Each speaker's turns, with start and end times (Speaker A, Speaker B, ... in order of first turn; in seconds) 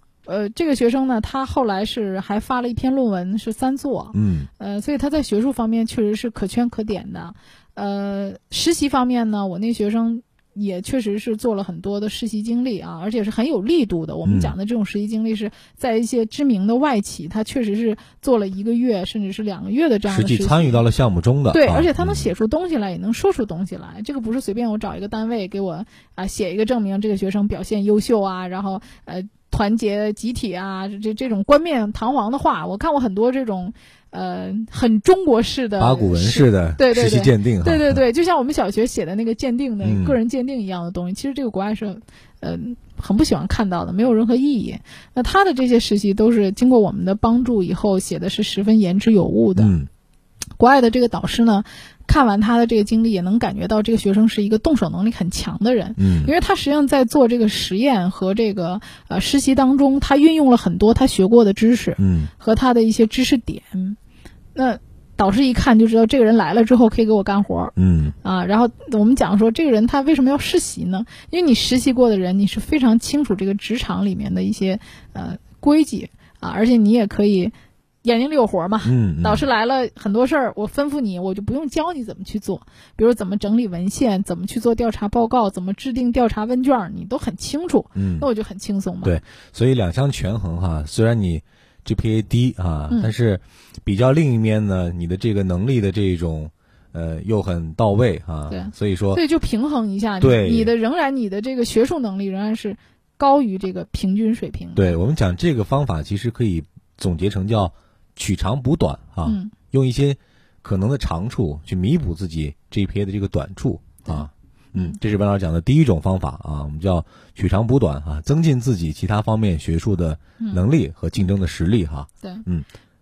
Speaker A: 0.2-20.9, 21.5-49.8, 50.6-64.0, 64.5-89.2, 98.5-105.0, 109.2-109.5, 114.0-115.0, 120.4-120.6
Speaker B: 4.1-4.5, 14.2-14.5, 20.1-22.3, 35.8-38.0, 39.8-40.2, 49.6-49.9, 56.0-56.3, 62.0-62.3, 67.8-68.2, 78.8-79.5, 88.0-88.3, 89.0-99.2, 100.2-100.7, 104.8-122.7